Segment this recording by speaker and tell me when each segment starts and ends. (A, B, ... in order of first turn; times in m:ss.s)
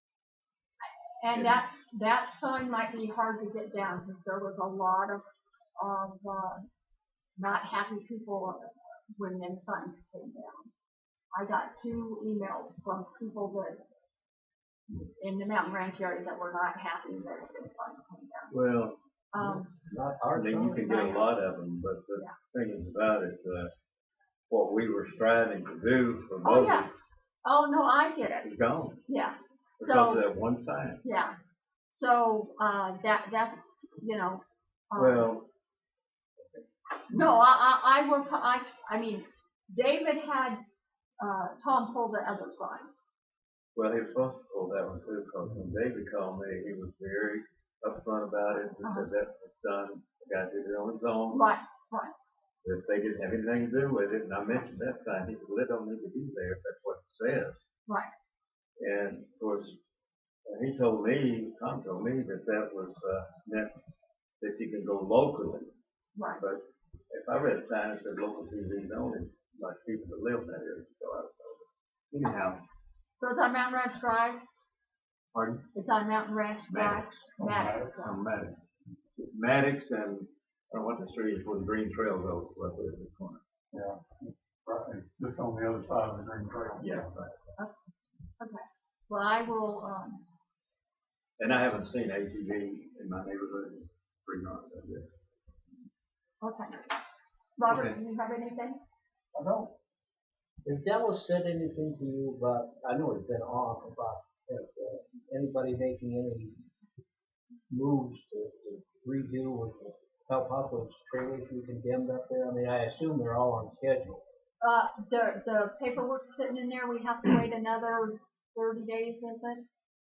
0:00.8-0:05.2 A
0:01.3-0:01.6 B
0:05.8-0:06.6 A
0:07.4-0:10.7 A
0:11.3-0:13.8 A
0:15.1-0:18.5 A
0:18.5-0:19.0 B
0:19.3-0:19.7 A
0:19.4-0:20.9 C
0:20.3-0:23.7 B
0:20.8-0:21.3 A
0:24.5-0:26.9 B
0:26.4-0:26.9 A
0:27.4-0:28.5 A
0:28.4-0:29.0 B
0:29.1-0:30.2 A
0:29.8-0:31.0 B
0:31.0-0:31.3 A
0:31.9-0:35.3 A
0:34.9-0:35.5 B
0:37.1-0:40.6 A
0:41.2-0:42.9 A
0:43.8-0:51.4 B
0:48.8-0:49.1 A
0:51.3-0:52.1 A
0:52.6-0:57.6 B
0:57.9-0:58.1 A
0:58.8-0:59.8 B
1:00.5-1:03.7 B
1:04.4-1:05.7 B
1:06.2-1:06.4 A
1:06.4-1:12.6 B
1:13.2-1:14.4 A
1:15.3-1:15.6 B
1:15.7-1:18.2 A
1:16.7-1:17.1 B
1:17.4-1:18.0 D
1:18.0-1:18.6 B
1:19.2-1:23.4 B
1:23.7-1:27.1 D
1:26.8-1:27.3 B
1:28.4-1:30.2 A
1:31.4-1:35.1 B
1:36.4-1:37.0 A
1:37.6-1:38.8 A
1:40.6-1:46.6 C
1:47.7-1:54.2 C
1:54.6-1:59.7 A